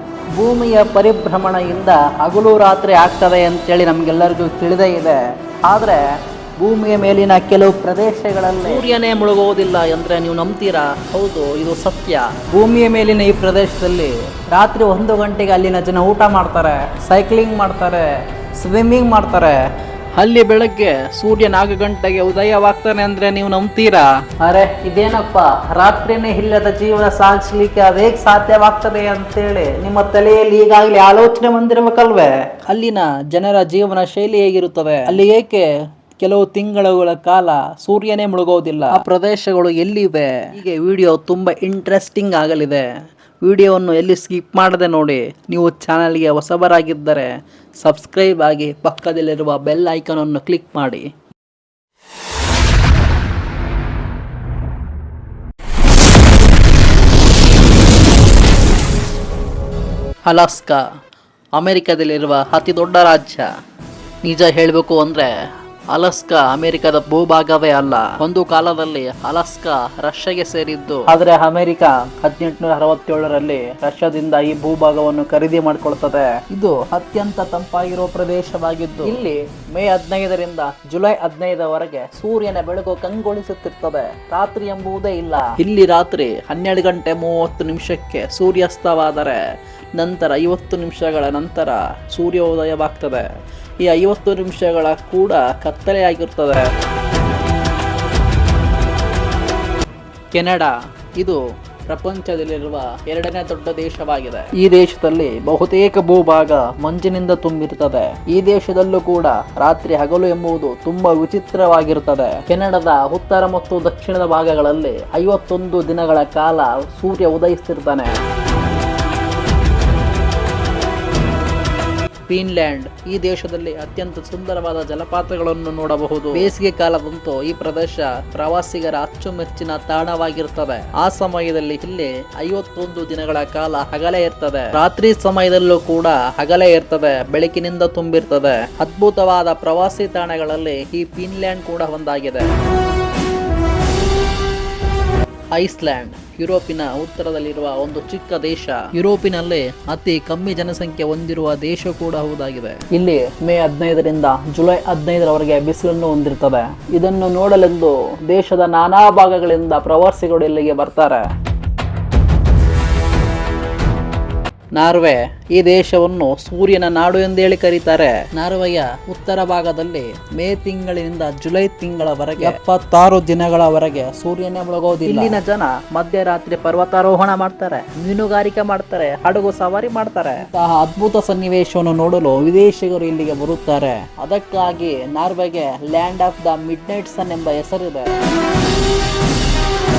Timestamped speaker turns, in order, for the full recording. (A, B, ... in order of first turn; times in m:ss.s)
0:00.3-0:42.9 A
0:43.4-0:51.1 A
1:00.2-1:00.9 A
1:01.6-1:03.5 A
1:04.2-1:29.4 A
1:30.0-1:33.3 A
1:33.8-1:36.7 A
1:40.3-1:58.2 A
2:02.3-2:22.5 A
2:25.5-2:41.3 A
2:44.7-3:08.2 A